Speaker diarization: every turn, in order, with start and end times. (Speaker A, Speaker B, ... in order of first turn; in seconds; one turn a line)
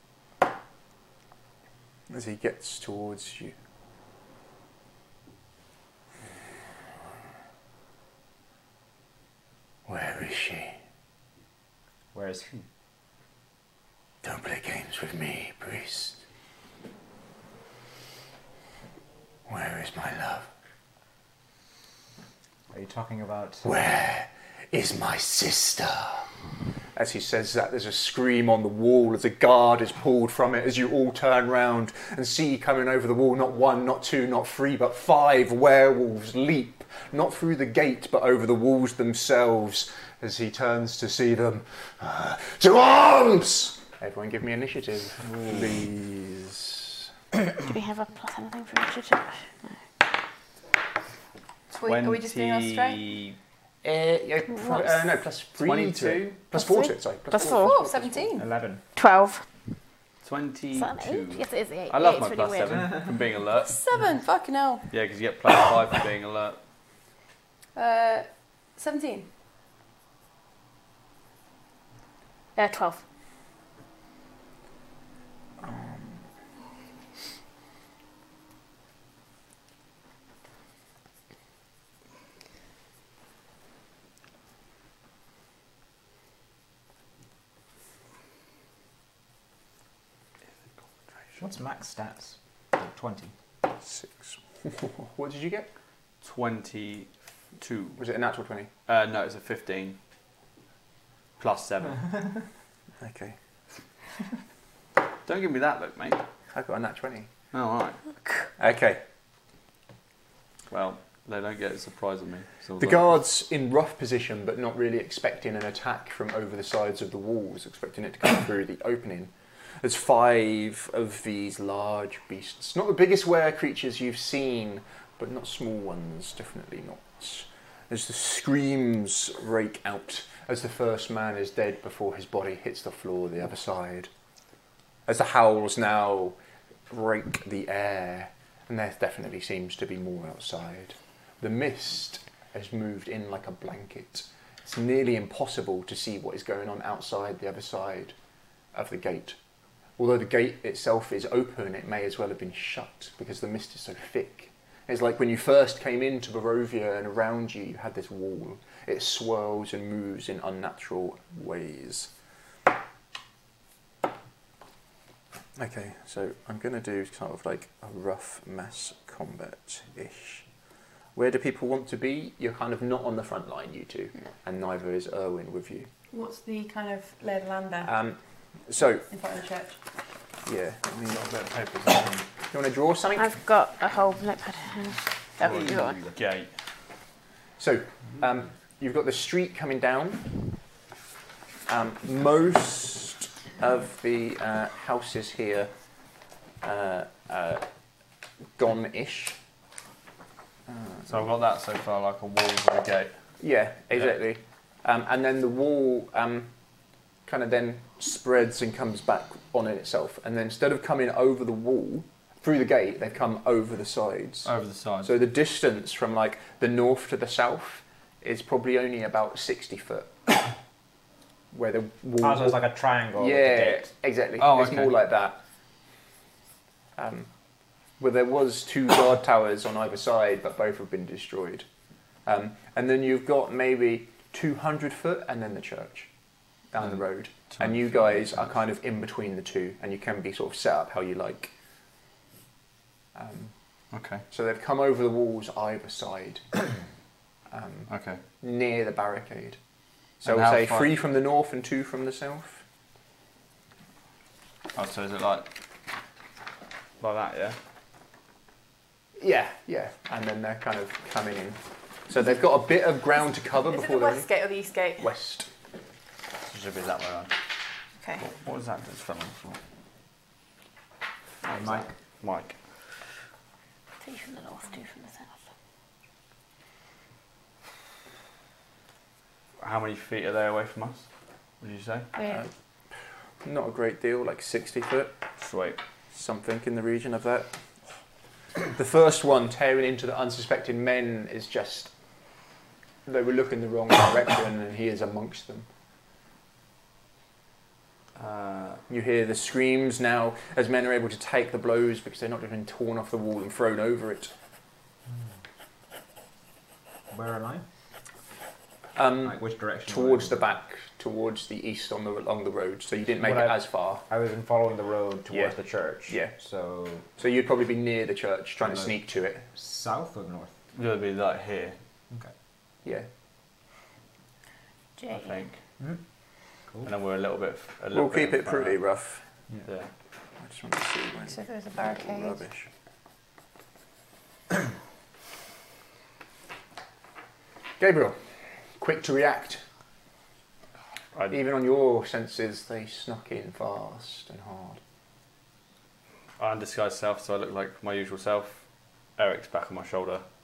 Speaker A: 2.1-3.5
Speaker A: 9.9-10.8
Speaker B: 12.1-12.6
Speaker A: 14.2-16.2
Speaker A: 19.5-20.5
Speaker B: 22.7-23.7
Speaker A: 23.6-26.3
Speaker A: 26.9-47.0
Speaker B: 45.2-45.7
Speaker C: 47.6-49.4
Speaker D: 51.7-53.1
Speaker E: 51.7-53.4
Speaker A: 53.8-58.4
Speaker B: 55.6-56.2
Speaker D: 56.6-56.9
Speaker C: 57.3-57.7
Speaker D: 57.5-58.5
Speaker B: 58.4-58.8
Speaker C: 59.0-59.4
Speaker E: 60.2-63.8
Speaker C: 60.7-62.8
Speaker D: 63.6-64.9
Speaker E: 64.9-66.6
Speaker D: 67.7-69.3
Speaker C: 72.5-73.0
Speaker A: 75.6-76.2
Speaker B: 91.4-93.3
Speaker A: 93.8-95.7
Speaker E: 96.2-98.0
Speaker A: 98.0-98.7
Speaker E: 98.8-100.0
Speaker E: 101.4-102.4
Speaker A: 103.0-103.4
Speaker E: 105.2-106.2
Speaker A: 106.5-107.3
Speaker E: 107.5-108.1
Speaker A: 108.6-109.0
Speaker E: 110.7-113.0
Speaker A: 112.8-134.1
Speaker A: 135.1-136.4
Speaker A: 136.9-148.1
Speaker A: 148.7-149.4
Speaker A: 150.0-162.1
Speaker A: 165.6-170.4
Speaker A: 171.1-175.9
Speaker D: 176.1-177.9
Speaker A: 177.8-179.1
Speaker D: 179.1-179.8
Speaker A: 180.4-181.3
Speaker E: 181.1-182.2
Speaker A: 182.5-183.3
Speaker C: 183.2-186.0
Speaker E: 185.4-186.5
Speaker B: 185.4-186.0
Speaker A: 187.6-190.3
Speaker A: 191.7-195.7
Speaker A: 196.6-197.6
Speaker A: 198.6-199.4
Speaker A: 200.7-201.3
Speaker E: 201.1-203.2
Speaker A: 203.4-206.5
Speaker A: 207.2-220.3
Speaker E: 214.4-215.1
Speaker A: 221.5-222.6
Speaker B: 222.2-223.9
Speaker A: 223.2-225.4
Speaker E: 224.4-224.9
Speaker A: 227.0-227.3
Speaker A: 228.0-231.7
Speaker A: 232.2-236.1
Speaker A: 236.7-241.5
Speaker E: 237.4-238.5
Speaker A: 243.1-243.5
Speaker E: 243.9-244.2
Speaker A: 244.3-246.4
Speaker A: 247.5-249.6
Speaker E: 247.9-248.2
Speaker A: 250.2-252.6
Speaker E: 250.2-251.0
Speaker E: 254.7-255.5
Speaker E: 257.0-257.6
Speaker A: 259.2-264.3
Speaker D: 263.7-265.1
Speaker A: 265.0-265.5
Speaker E: 266.4-267.3
Speaker E: 268.2-269.6
Speaker E: 271.4-272.6
Speaker C: 274.0-275.3
Speaker E: 279.6-281.1
Speaker E: 281.6-282.1
Speaker A: 283.4-285.2
Speaker E: 285.4-285.8
Speaker A: 286.1-287.6
Speaker A: 288.7-291.9
Speaker A: 293.1-295.7
Speaker E: 298.1-298.8
Speaker A: 298.9-304.3
Speaker B: 307.1-307.6
Speaker A: 308.9-314.0
Speaker B: 309.2-310.4
Speaker B: 313.2-317.1
Speaker A: 315.3-315.6
Speaker A: 316.1-316.3
Speaker A: 317.2-319.4
Speaker B: 318.6-318.9
Speaker B: 319.5-320.5
Speaker E: 320.7-321.8
Speaker C: 325.0-325.3
Speaker E: 325.1-325.6
Speaker E: 326.8-328.8
Speaker A: 327.9-329.2
Speaker E: 329.6-329.9
Speaker A: 330.4-332.7
Speaker D: 331.3-332.4
Speaker A: 337.8-338.2
Speaker A: 338.8-339.6
Speaker A: 341.3-344.8
Speaker E: 346.4-350.3